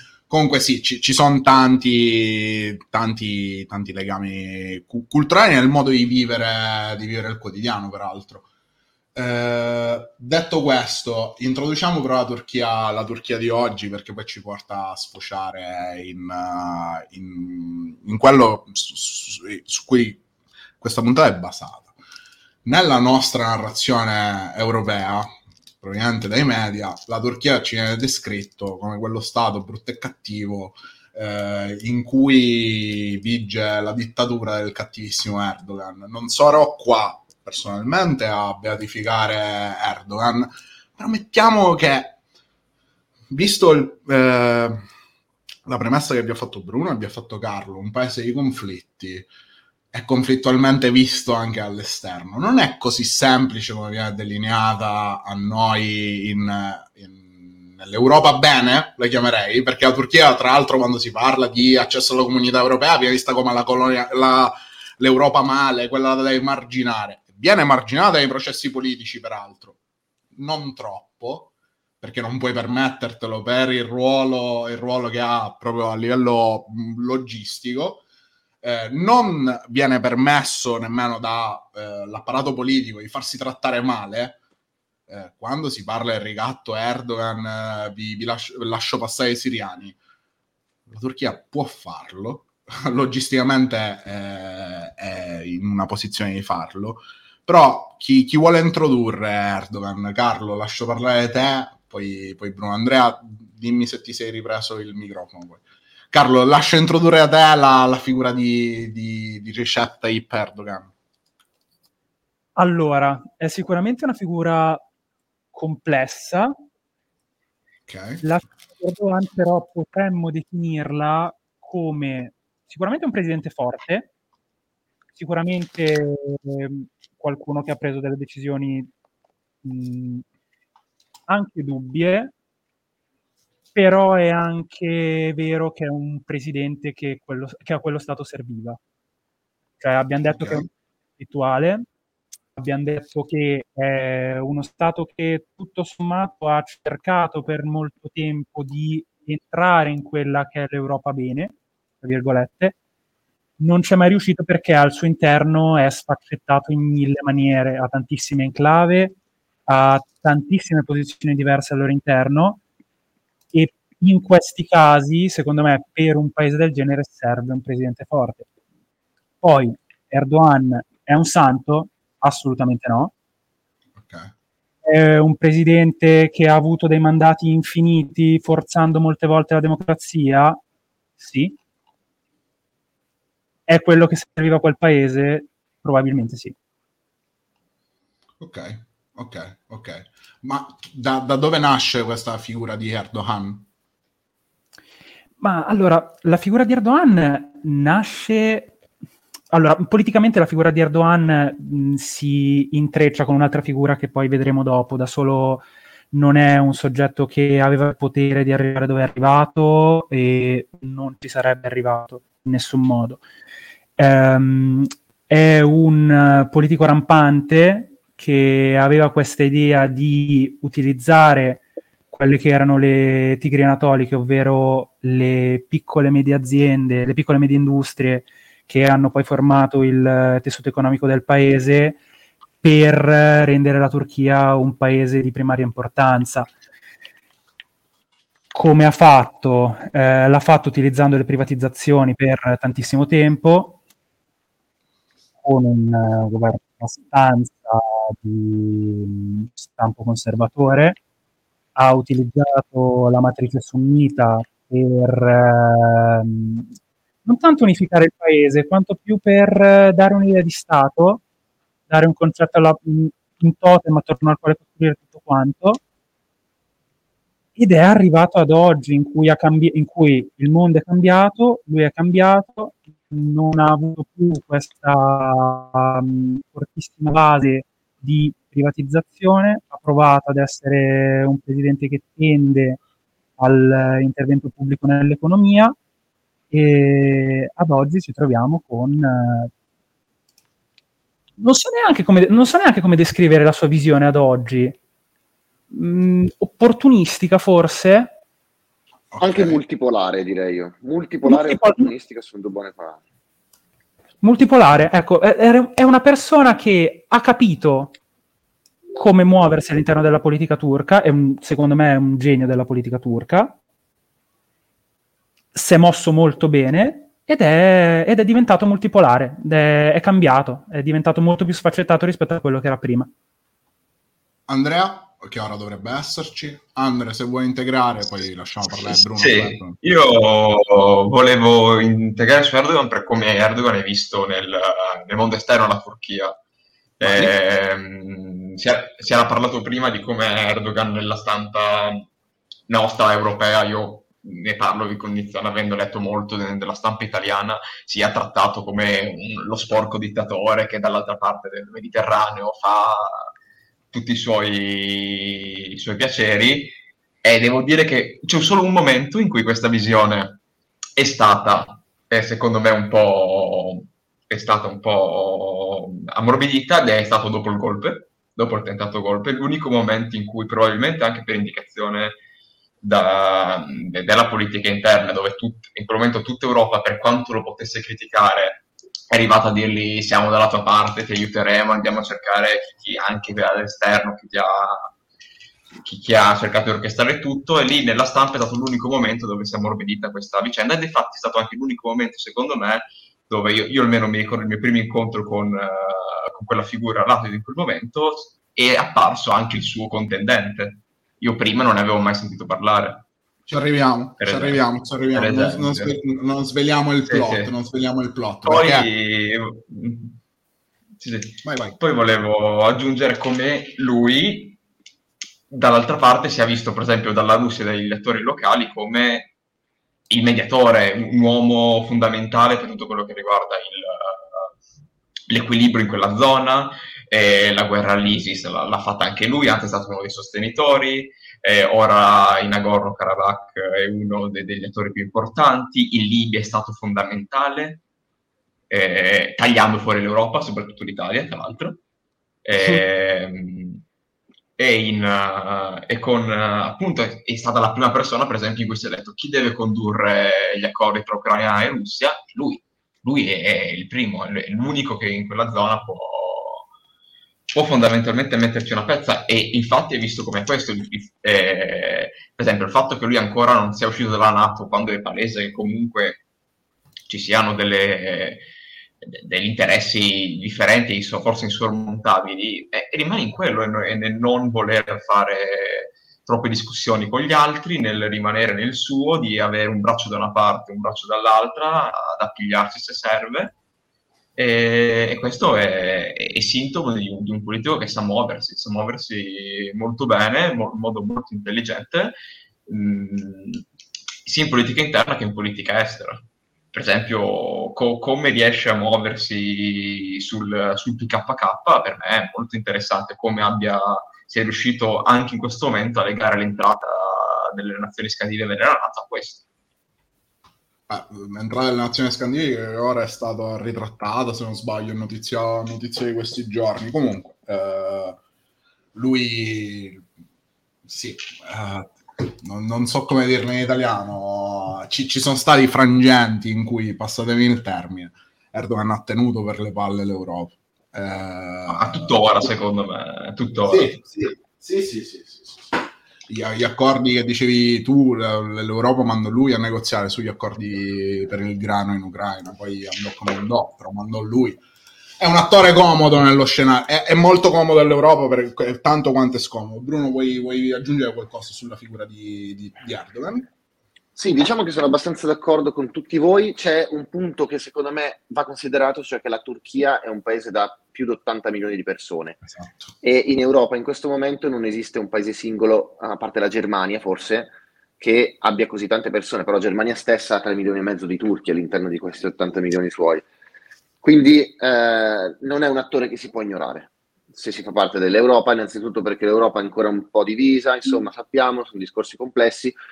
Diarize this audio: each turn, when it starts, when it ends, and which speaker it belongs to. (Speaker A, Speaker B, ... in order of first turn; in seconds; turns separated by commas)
Speaker A: 0.3-8.4, Speaker A: 9.1-20.2, Speaker A: 20.8-21.9, Speaker A: 22.6-42.2, Speaker A: 43.3-44.8, Speaker A: 45.6-49.3, Speaker A: 49.9-69.8, Speaker A: 70.3-78.0, Speaker A: 78.6-84.4, Speaker A: 85.1-90.0, Speaker A: 90.9-110.9, Speaker B: 112.6-114.8, Speaker B: 115.5-116.5, Speaker A: 117.9-118.2, Speaker B: 118.2-124.1, Speaker B: 125.2-128.9, Speaker B: 129.6-130.2, Speaker B: 131.3-132.3, Speaker B: 133.7-138.8, Speaker B: 139.8-141.8, Speaker A: 140.3-140.6, Speaker B: 142.6-152.7, Speaker B: 153.6-159.2, Speaker B: 159.7-162.6, Speaker B: 163.5-168.4, Speaker B: 169.4-173.1, Speaker A: 174.0-174.3, Speaker B: 174.8-180.6, Speaker B: 181.2-181.5, Speaker B: 183.7-186.5, Speaker A: 188.4-193.7, Speaker B: 195.4-198.8, Speaker B: 199.5-213.2, Speaker B: 214.0-232.0, Speaker B: 232.6-236.5, Speaker B: 238.5-243.8, Speaker B: 245.4-251.0, Speaker B: 251.8-256.7, Speaker B: 257.2-261.2, Speaker B: 261.9-265.8, Speaker B: 267.6-282.8, Speaker B: 283.4-285.8, Speaker B: 286.5-289.5, Speaker B: 291.4-294.8, Speaker B: 295.7-298.1, Speaker A: 299.1-299.6, Speaker C: 299.2-303.0, Speaker B: 301.2-301.9, Speaker B: 304.2-307.9, Speaker B: 308.9-313.6, Speaker B: 315.5-323.1, Speaker A: 324.5-329.8, Speaker D: 328.7-336.3, Speaker D: 337.0-342.1, Speaker A: 337.0-337.3, Speaker D: 342.7-353.3, Speaker D: 353.9-360.4, Speaker D: 361.0-372.2, Speaker D: 372.8-384.9, Speaker D: 385.8-403.0, Speaker A: 403.5-408.9, Speaker D: 404.2-404.6, Speaker D: 405.1-405.9, Speaker D: 407.1-407.5, Speaker D: 408.4-410.2, Speaker D: 411.0-414.6, Speaker A: 411.4-411.8, Speaker D: 415.5-419.3, Speaker D: 420.1-424.5, Speaker D: 425.3-437.8, Speaker D: 438.7-441.8, Speaker D: 442.4-443.8, Speaker D: 444.6-456.6, Speaker D: 457.5-466.2, Speaker D: 467.1-468.4, Speaker D: 469.0-483.6, Speaker D: 484.4-492.1, Speaker D: 492.7-493.6, Speaker D: 494.2-509.4, Speaker A: 510.9-518.2, Speaker A: 518.9-520.0, Speaker A: 520.9-532.2, Speaker D: 531.7-534.0, Speaker A: 533.7-544.6, Speaker A: 545.2-553.5, Speaker C: 554.1-562.4, Speaker A: 562.4-562.9, Speaker C: 563.0-573.2, Speaker C: 574.0-582.7